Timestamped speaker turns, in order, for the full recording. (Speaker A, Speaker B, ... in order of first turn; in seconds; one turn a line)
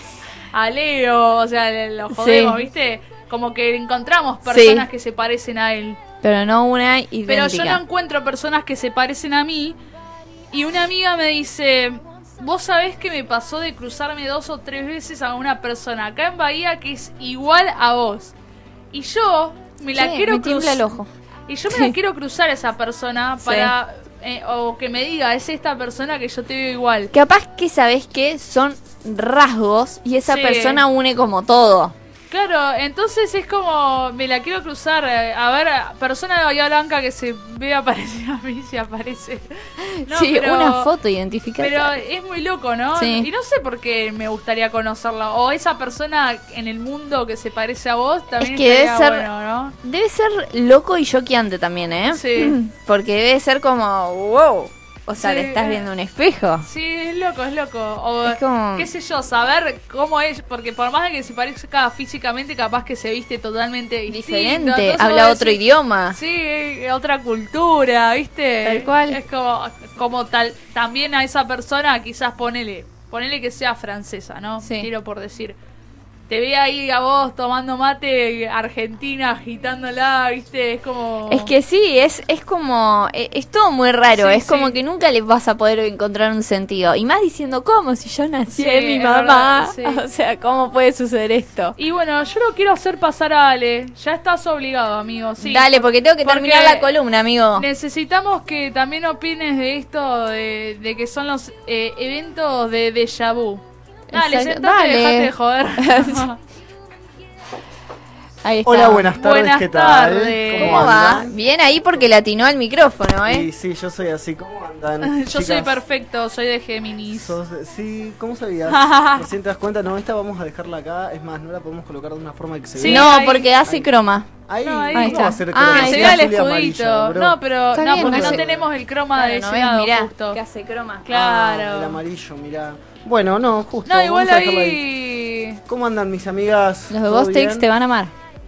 Speaker A: 0.5-6.0
Speaker B: 2.1-2.6
Speaker B: 4.5-4.9
Speaker B: 6.2-7.8
Speaker A: 7.3-9.8
Speaker A: 10.5-18.3
Speaker A: 18.9-20.9
Speaker B: 19.9-21.1
Speaker A: 21.5-27.1
Speaker B: 21.7-21.9
Speaker B: 23.4-23.7
Speaker B: 27.1-31.9
Speaker A: 30.2-30.8
Speaker A: 32.3-40.9
Speaker B: 39.8-42.0
Speaker A: 41.6-49.7
Speaker B: 43.0-43.3
Speaker B: 48.4-49.3
Speaker B: 49.8-56.6
Speaker A: 52.1-52.6
Speaker A: 55.2-55.8
Speaker A: 56.6-75.6
Speaker B: 58.2-58.9
Speaker B: 64.1-66.2
Speaker B: 68.6-69.2
Speaker B: 74.6-74.9
Speaker A: 76.3-81.5
Speaker B: 81.3-91.8
Speaker A: 84.1-84.8
Speaker A: 88.5-90.0
Speaker A: 91.8-96.9
Speaker B: 95.4-97.7
Speaker A: 97.5-106.4
Speaker B: 104.1-106.3
Speaker B: 108.4-109.1
Speaker C: 108.6-111.3
Speaker A: 109.1-110.9
Speaker B: 110.6-113.5
Speaker C: 113.2-115.8
Speaker A: 115.0-117.3
Speaker C: 117.1-123.9
Speaker A: 118.7-119.3
Speaker A: 122.7-123.5
Speaker B: 122.8-124.3
Speaker C: 124.5-128.7
Speaker A: 124.6-130.4
Speaker B: 124.9-126.3
Speaker B: 127.7-128.4
Speaker B: 129.1-131.1
Speaker A: 131.0-132.0
Speaker C: 131.1-134.8
Speaker A: 133.8-135.6
Speaker C: 135.7-137.7
Speaker B: 136.9-138.1